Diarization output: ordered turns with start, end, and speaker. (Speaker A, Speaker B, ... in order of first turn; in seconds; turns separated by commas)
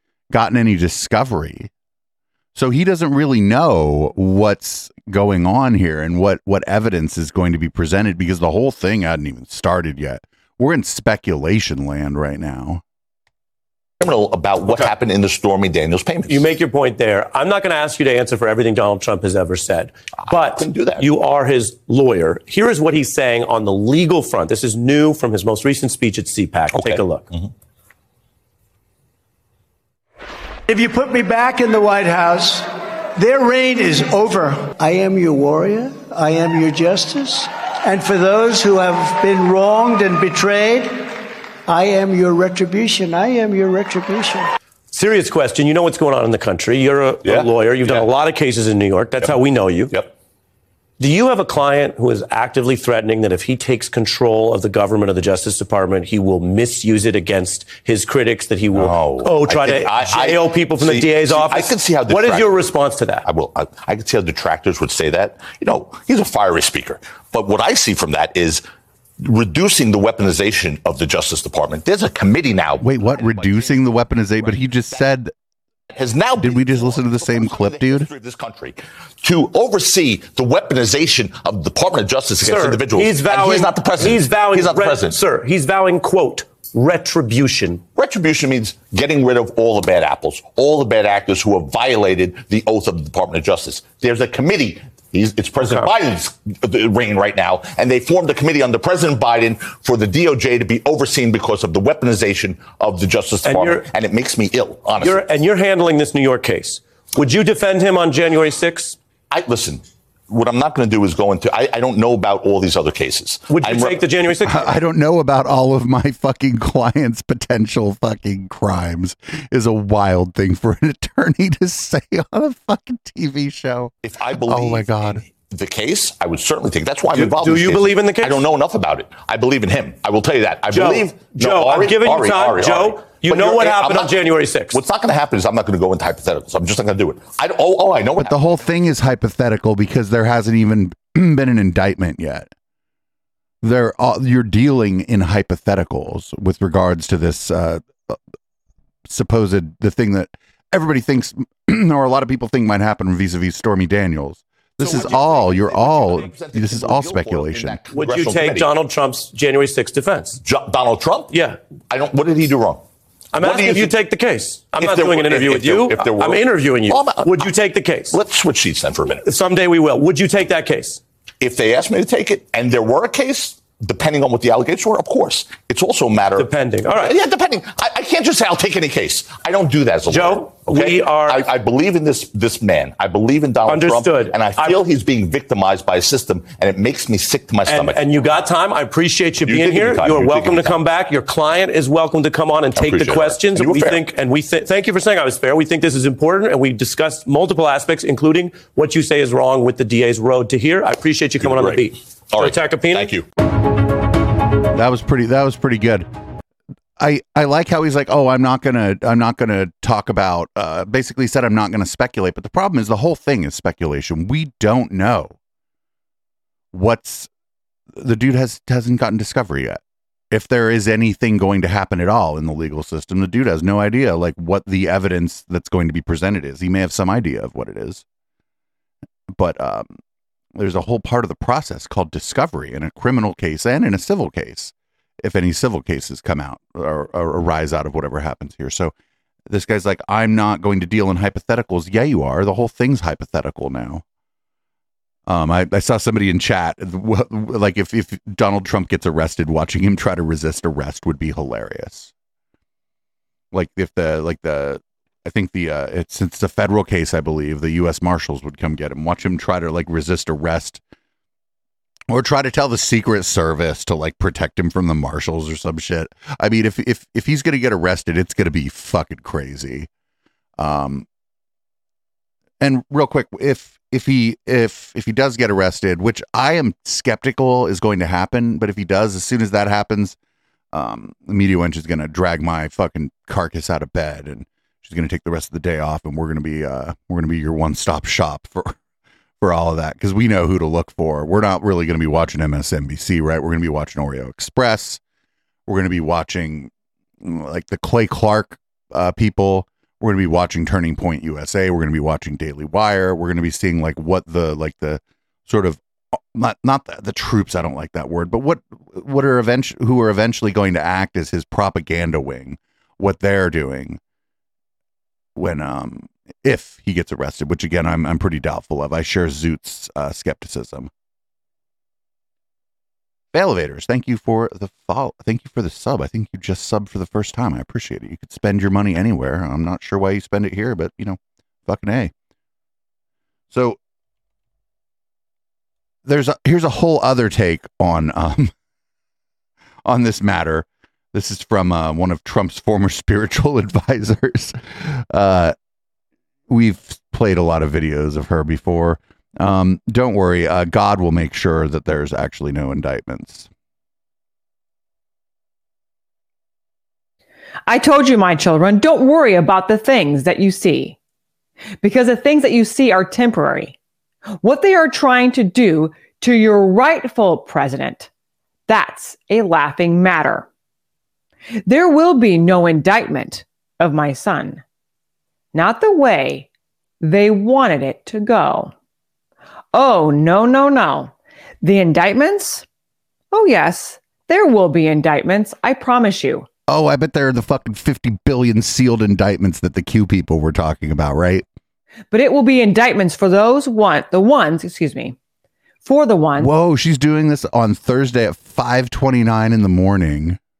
Speaker A: 0.3-1.7, Speaker A: 2.5-12.8, Speaker B: 14.0-16.6, Speaker C: 16.3-27.3, Speaker B: 20.3-21.0, Speaker B: 26.7-27.5, Speaker D: 30.7-41.1, Speaker D: 41.7-44.5, Speaker C: 44.9-49.9, Speaker B: 47.2-48.1, Speaker C: 51.0-63.2, Speaker B: 58.7-62.7, Speaker B: 63.2-68.6, Speaker B: 69.2-75.0, Speaker A: 72.8-75.3, Speaker B: 75.9-85.2, Speaker A: 76.4-78.1, Speaker C: 82.4-87.8, Speaker B: 88.0-105.3, Speaker C: 95.6-95.9, Speaker C: 103.4-103.8, Speaker C: 105.0-109.0, Speaker B: 109.3-114.0, Speaker C: 113.5-114.7, Speaker A: 114.5-123.9, Speaker B: 124.0-134.2, Speaker A: 124.5-125.2, Speaker C: 127.1-128.4, Speaker C: 130.7-134.8, Speaker B: 134.7-138.4, Speaker A: 138.2-142.5, Speaker A: 143.6-148.2, Speaker A: 149.1-157.8, Speaker B: 154.8-158.7, Speaker C: 157.9-160.4, Speaker B: 160.4-161.3, Speaker C: 161.3-161.6, Speaker B: 161.9-162.8, Speaker C: 163.3-168.2, Speaker B: 163.4-163.9, Speaker B: 164.8-167.5, Speaker B: 168.1-169.3, Speaker C: 169.2-171.0, Speaker B: 171.4-188.1, Speaker C: 176.4-177.1, Speaker C: 180.1-181.4, Speaker C: 183.7-184.8, Speaker C: 187.7-203.1, Speaker B: 189.4-190.8, Speaker B: 192.8-194.0, Speaker B: 201.4-203.2, Speaker A: 204.7-206.1, Speaker A: 207.0-215.4, Speaker A: 216.7-217.3, Speaker A: 217.9-219.8, Speaker A: 220.3-228.0, Speaker A: 229.3-229.9, Speaker A: 230.6-238.9, Speaker A: 239.5-244.0, Speaker A: 245.2-252.1, Speaker A: 253.5-260.8, Speaker A: 262.1-269.9, Speaker A: 270.6-271.1, Speaker A: 272.6-280.1, Speaker A: 280.7-288.8, Speaker A: 289.4-295.0, Speaker A: 295.7-314.0, Speaker A: 315.4-320.9, Speaker A: 323.3-332.1, Speaker A: 333.5-333.8, Speaker A: 336.0-338.5, Speaker A: 339.9-345.5, Speaker A: 346.5-353.5, Speaker E: 357.7-361.0, Speaker E: 361.8-363.7, Speaker E: 364.4-368.1, Speaker E: 368.7-370.5, Speaker E: 371.6-374.6, Speaker E: 375.5-376.5, Speaker E: 377.0-378.7, Speaker E: 379.7-382.6, Speaker E: 383.3-386.5, Speaker A: 386.7-391.4, Speaker E: 392.1-395.1, Speaker E: 395.8-396.5, Speaker A: 396.4-400.4